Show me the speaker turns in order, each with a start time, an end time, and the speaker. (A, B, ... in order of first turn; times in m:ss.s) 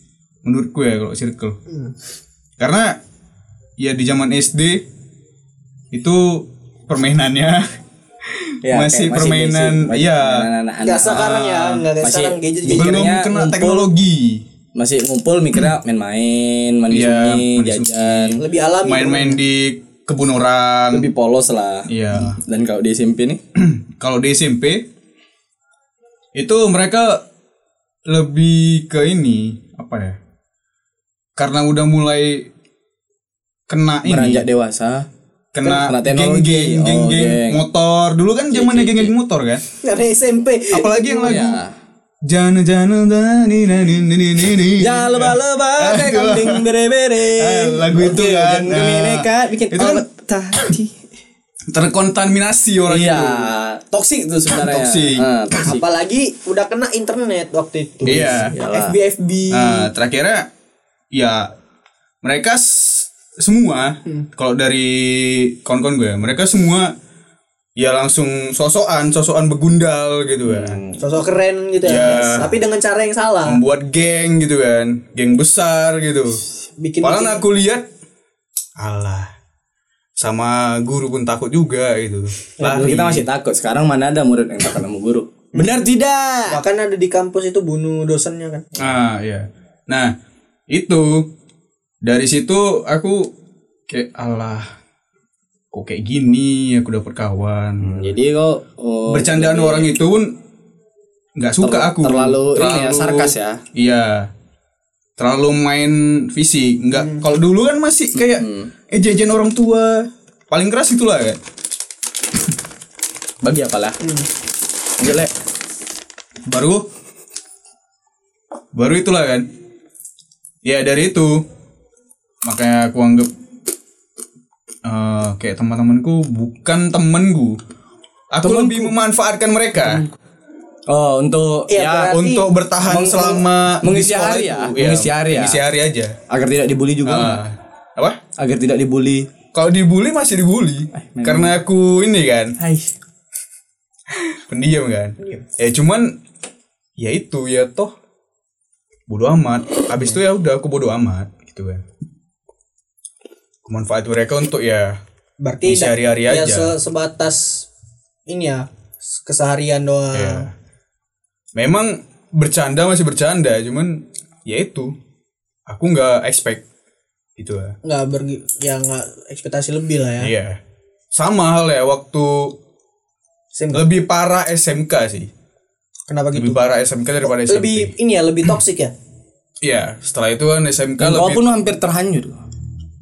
0:00.4-0:01.6 A
0:01.7-0:01.9 B
0:02.6-0:03.0 A
0:03.8-0:04.8 A
0:05.9-0:07.7 A
0:08.3-0:10.5 A
0:08.6-0:11.4 C
0:10.8-0:13.1 B
0:11.1-0:11.8 A
0:12.0-0:13.9 C
0:12.7-0:14.4 A
0:14.8-0:18.4 C
0:16.9-0:21.1 A
0:18.4-0:19.4 B
0:20.9-0:23.4 C
0:21.9-0:22.4 A
0:23.6-0:24.9 A
0:26.4-0:27.2 A
0:28.1-0:30.2 A
0:31.4-0:32.5 A
0:33.7-0:34.4 A
0:34.0-0:35.1 C
0:35.5-0:39.6 A
0:35.6-0:37.6 C
0:38.5-0:39.1 C
0:39.8-0:41.4 B
0:40.7-0:41.6 A
0:41.2-0:41.7 C
0:42.2-0:46.7 A
0:44.8-0:50.9 C
0:47.3-0:50.0 A
0:51.7-0:53.5 A
0:52.9-0:55.8 C
0:54.5-0:55.3 A
0:55.6-0:59.9 B
0:58.1-0:58.5 A
0:58.1-0:59.0 C
0:59.5-1:00.5 A
1:01.1-1:01.5 A
1:02.2-1:06.9 A
1:07.8-1:10.8 A
1:10.5-1:11.0 C
1:11.0-1:13.6 B
1:11.8-1:12.5 A
1:13.5-1:16.4 A
1:16.8-1:17.4 B
1:17.0-1:17.9 A
1:18.8-1:19.3 A
1:20.2-1:23.2 A
1:22.6-1:26.6 C
1:26.5-1:28.8 B
1:28.8-1:30.1 A
1:30.7-1:31.3 A
1:32.0-1:33.3 A
1:33.9-1:34.7 A
1:35.7-1:38.2 A
1:37.8-1:39.9 C
1:39.1-1:40.4 A
1:41.4-1:44.3 A
1:41.6-1:43.6 C
1:45.2-1:51.4 A
1:48.2-1:48.7 C
1:53.4-1:54.1 C
1:55.0-1:55.3 C
1:56.5-1:56.9 A
1:58.7-1:59.5 A
2:00.6-2:01.4 A
2:02.4-2:03.3 A
2:04.8-2:07.6 A
2:08.3-2:10.0 A
2:08.4-2:09.0 C
2:10.9-2:12.2 C
2:11.7-2:12.5 B
2:12.1-2:16.2 A
2:12.8-2:15.6 C
2:16.3-2:17.4 C
2:17.0-2:18.2 A
2:18.4-2:19.3 C
2:19.5-2:22.6 A
2:21.0-2:21.6 C
2:22.6-2:22.9 C
2:24.2-2:26.2 A
2:27.0-2:27.9 A
2:29.1-2:31.8 A
2:33.6-2:35.0 A
2:35.4-2:37.7 B
2:35.6-2:36.7 A
2:38.3-2:40.5 B
2:40.1-2:40.5 A
2:41.6-2:44.9 A
2:45.7-2:46.6 A
2:47.4-2:47.8 A
2:47.8-2:50.3 B
2:50.2-2:50.6 A
2:51.1-2:52.6 A
2:53.6-2:53.8 B
2:53.7-2:55.3 A
2:56.1-2:56.6 B
2:56.4-2:57.9 A
2:57.2-2:58.9 B
2:59.6-3:01.5 A
3:01.0-3:02.4 C